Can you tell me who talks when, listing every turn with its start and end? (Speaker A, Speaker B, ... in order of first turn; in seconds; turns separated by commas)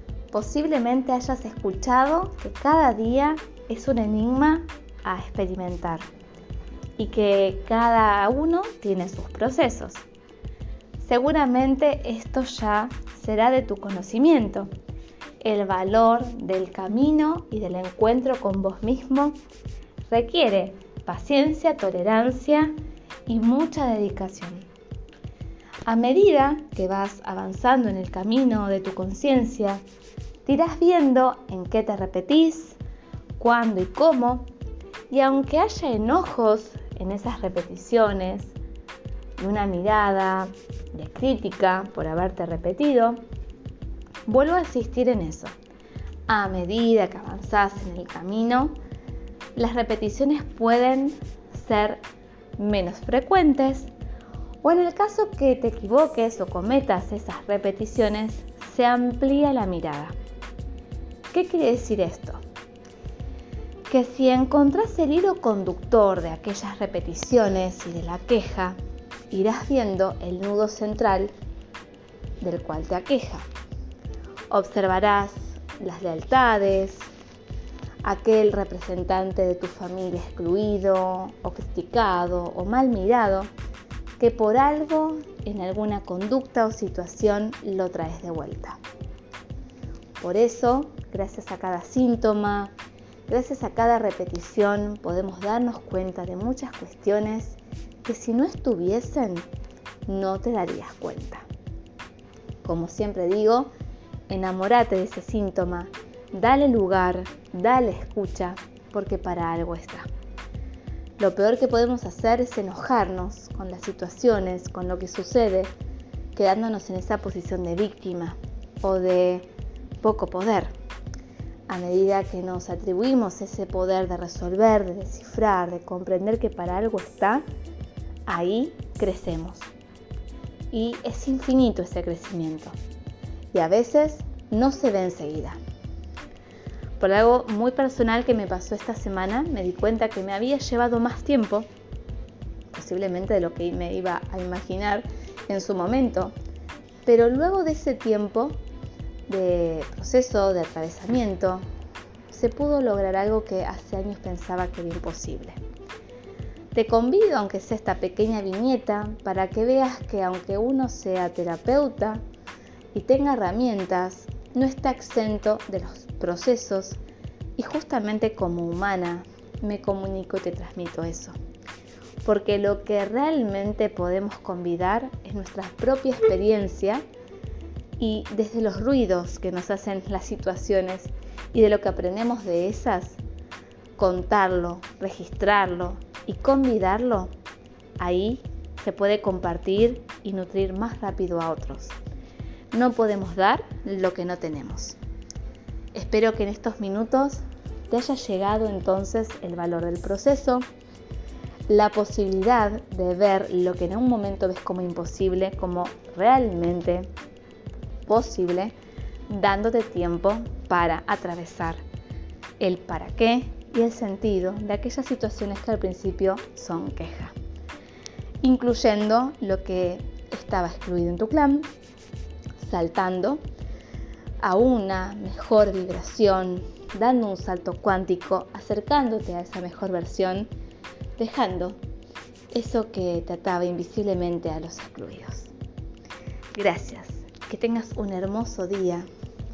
Speaker A: 0.3-6.1, Speaker A: 7.0-10.1, Speaker A: 11.0-14.7, Speaker A: 15.4-19.4, Speaker A: 20.1-22.7, Speaker A: 23.3-24.7, Speaker A: 25.9-29.8, Speaker A: 30.4-32.8, Speaker A: 33.4-34.5, Speaker A: 35.1-38.5, Speaker A: 39.4-43.2, Speaker A: 44.3-45.5, Speaker A: 46.3-48.8, Speaker A: 49.6-52.0, Speaker A: 52.6-53.9, Speaker A: 54.6-60.1, Speaker A: 61.3-62.4, Speaker A: 63.9-68.8, Speaker A: 69.3-71.3, Speaker A: 72.4-73.5, Speaker A: 74.5-77.1, Speaker A: 78.0-83.5, Speaker A: 84.2-88.8, Speaker A: 90.2-92.7, Speaker A: 93.3-99.5, Speaker A: 100.1-101.5, Speaker A: 102.6-103.7, Speaker A: 104.3-110.1, Speaker A: 111.2-115.7, Speaker A: 116.3-119.5, Speaker A: 120.0-120.7, Speaker A: 121.7-127.5, Speaker A: 128.3-129.7, Speaker A: 130.7-132.8, Speaker A: 133.5-135.6, Speaker A: 137.0-141.7, Speaker A: 142.7-146.3, Speaker A: 147.1-148.6, Speaker A: 149.3-151.6, Speaker A: 152.3-155.6, Speaker A: 156.7-162.2, Speaker A: 162.9-167.0, Speaker A: 167.6-171.4, Speaker A: 172.2-177.0, Speaker A: 178.0-183.2, Speaker A: 184.0-187.3, Speaker A: 188.0-192.0, Speaker A: 192.7-195.0, Speaker A: 195.9-200.7, Speaker A: 201.7-207.1, Speaker A: 208.1-208.7, Speaker A: 209.3-211.8, Speaker A: 212.6-217.3, Speaker A: 218.4-221.7, Speaker A: 222.6-223.4, Speaker A: 224.4-230.5, Speaker A: 231.2-231.8, Speaker A: 232.5-235.5, Speaker A: 236.6-239.1